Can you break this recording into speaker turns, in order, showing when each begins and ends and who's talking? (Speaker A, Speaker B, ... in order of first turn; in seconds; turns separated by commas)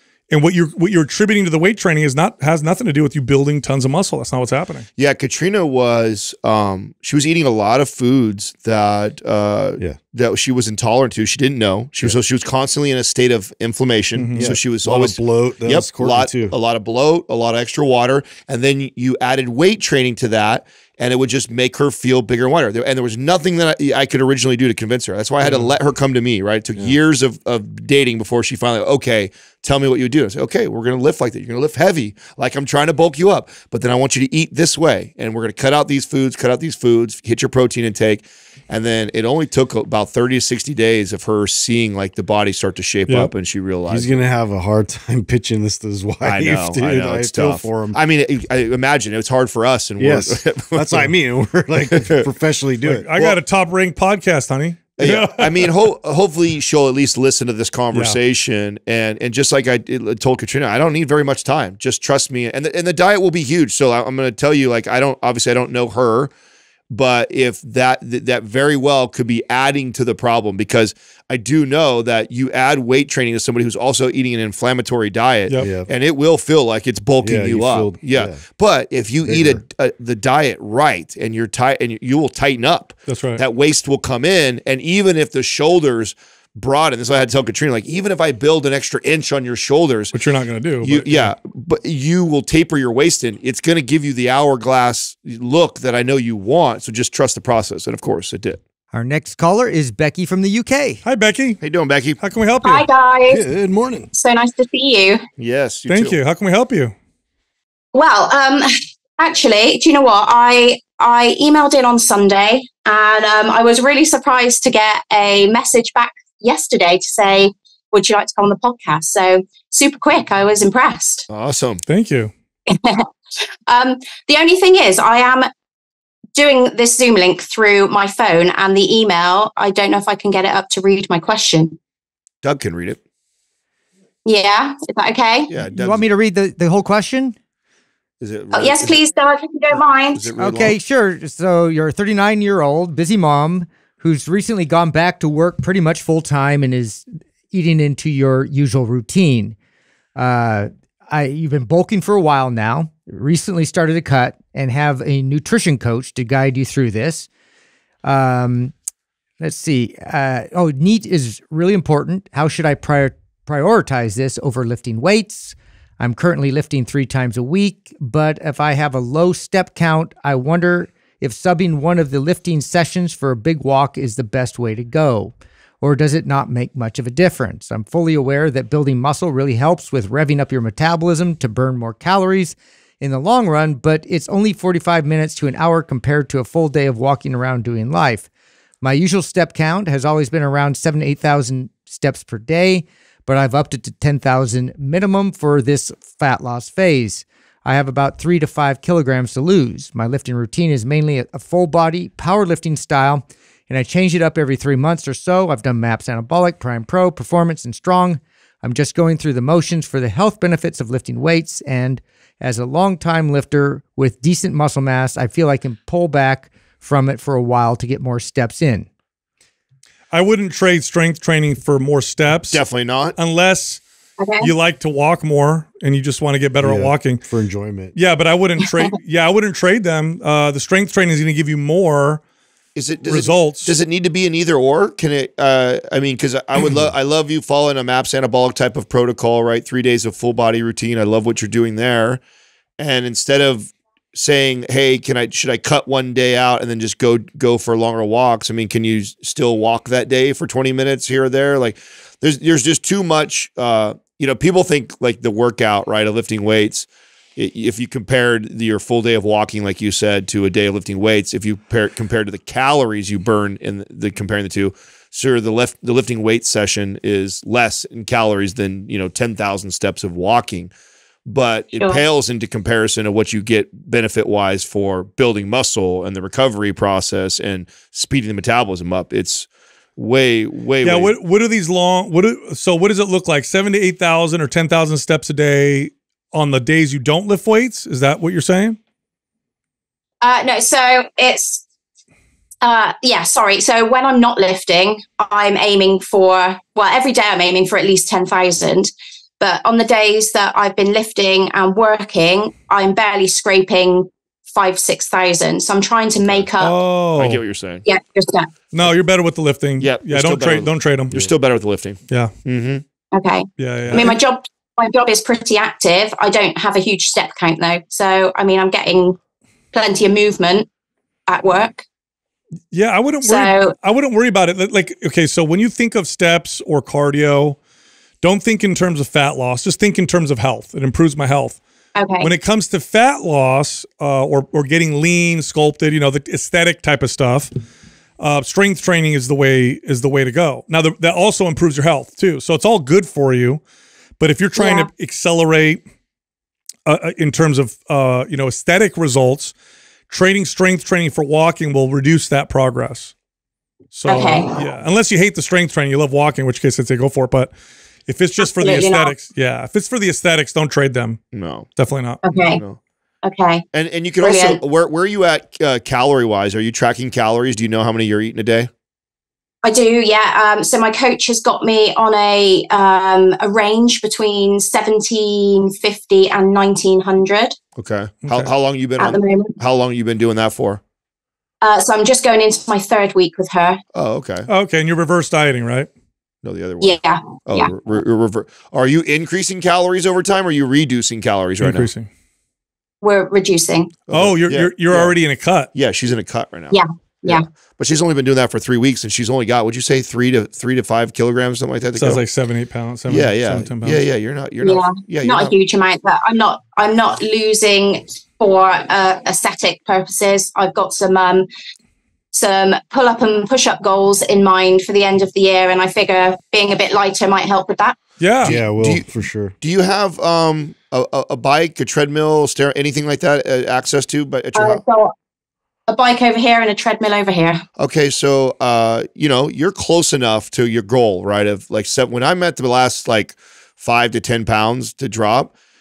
Speaker A: 0.3-4.9, Speaker B: 5.0-44.2, Speaker A: 14.2-14.5, Speaker C: 14.4-16.6, Speaker C: 25.4-25.7, Speaker C: 43.9-48.0, Speaker B: 46.2-51.1, Speaker C: 50.0-53.1, Speaker B: 51.9-52.3, Speaker A: 52.9-55.7, Speaker B: 55.0-66.3, Speaker A: 57.9-58.2, Speaker B: 66.9-90.1, Speaker C: 75.6-75.9, Speaker C: 77.2-78.4, Speaker C: 79.3-79.6, Speaker A: 83.1-83.4, Speaker A: 90.1-91.3, Speaker B: 90.8-98.6, Speaker D: 98.9-101.0, Speaker A: 101.0-101.6, Speaker B: 101.6-102.2, Speaker A: 102.2-102.9, Speaker E: 102.6-103.5, Speaker C: 103.3-104.1, Speaker E: 104.1-105.2, Speaker B: 105.4-106.2, Speaker A: 105.9-107.0, Speaker E: 107.9-121.2, Speaker B: 121.3-121.8, Speaker A: 121.9-122.3, Speaker E: 122.7-123.1, Speaker E: 123.7-125.5, Speaker E: 126.3-131.8, Speaker B: 132.4-133.0, Speaker E: 134.3-135.6, Speaker B: 135.5-136.1, Speaker D: 135.7-137.4, Speaker B: 138.2-139.0, Speaker E: 138.5-140.3, Speaker B: 140.1-140.8, Speaker D: 140.4-149.6, Speaker D: 150.2-157.3, Speaker D: 158.0-158.7, Speaker D: 159.4-188.3, Speaker D: 188.8-218.9, Speaker A: 220.1-222.6, Speaker B: 222.5-223.2, Speaker A: 223.2-223.8, Speaker E: 224.2-224.5, Speaker A: 224.4-227.2, Speaker C: 226.6-227.9, Speaker A: 227.9-232.2, Speaker B: 232.8-242.2, Speaker A: 233.1-233.8, Speaker B: 242.8-270.7, Speaker B: 271.3-281.1, Speaker E: 271.8-272.0, Speaker A: 280.8-288.8, Speaker E: 290.2-291.6, Speaker E: 292.6-306.8, Speaker B: 306.2-306.5, Speaker A: 306.6-307.4, Speaker B: 307.2-307.8, Speaker E: 307.9-308.5, Speaker A: 308.7-311.1, Speaker B: 309.8-312.9, Speaker E: 313.1-319.2, Speaker A: 313.6-314.2, Speaker E: 319.7-320.7, Speaker E: 321.3-321.9, Speaker A: 322.7-327.6, Speaker E: 323.2-323.8, Speaker A: 328.2-331.6, Speaker E: 332.0-332.3, Speaker A: 332.2-337.5, Speaker A: 338.2-343.6, Speaker A: 344.2-345.8, Speaker E: 344.6-344.9, Speaker A: 346.9-349.5, Speaker A: 350.1-353.1, Speaker A: 353.9-357.5, Speaker E: 354.1-354.6, Speaker A: 358.1-361.2, Speaker E: 358.4-359.1, Speaker B: 361.3-361.7, Speaker A: 361.8-362.2, Speaker E: 362.2-362.6, Speaker B: 362.3-362.8, Speaker E: 363.2-363.6, Speaker B: 363.7-368.7, Speaker E: 364.2-364.6, Speaker E: 369.6-377.6, Speaker B: 377.8-380.8, Speaker A: 378.2-378.5, Speaker E: 379.0-379.6, Speaker E: 381.6-383.8, Speaker B: 383.9-384.5, Speaker A: 384.5-385.9, Speaker B: 386.4-391.9, Speaker E: 386.8-387.7, Speaker A: 391.6-392.1, Speaker E: 393.0-394.0, Speaker B: 394.1-395.2, Speaker A: 394.1-395.7, Speaker B: 395.7-402.2, Speaker E: 396.7-397.5, Speaker A: 401.9-404.0, Speaker B: 403.1-405.6, Speaker E: 404.6-411.5, Speaker E: 412.3-418.0, Speaker A: 418.2-418.6, Speaker B: 418.4-419.1, Speaker C: 418.4-419.5, Speaker B: 419.6-424.8, Speaker E: 424.5-425.1, Speaker E: 425.9-427.6, Speaker B: 427.8-435.5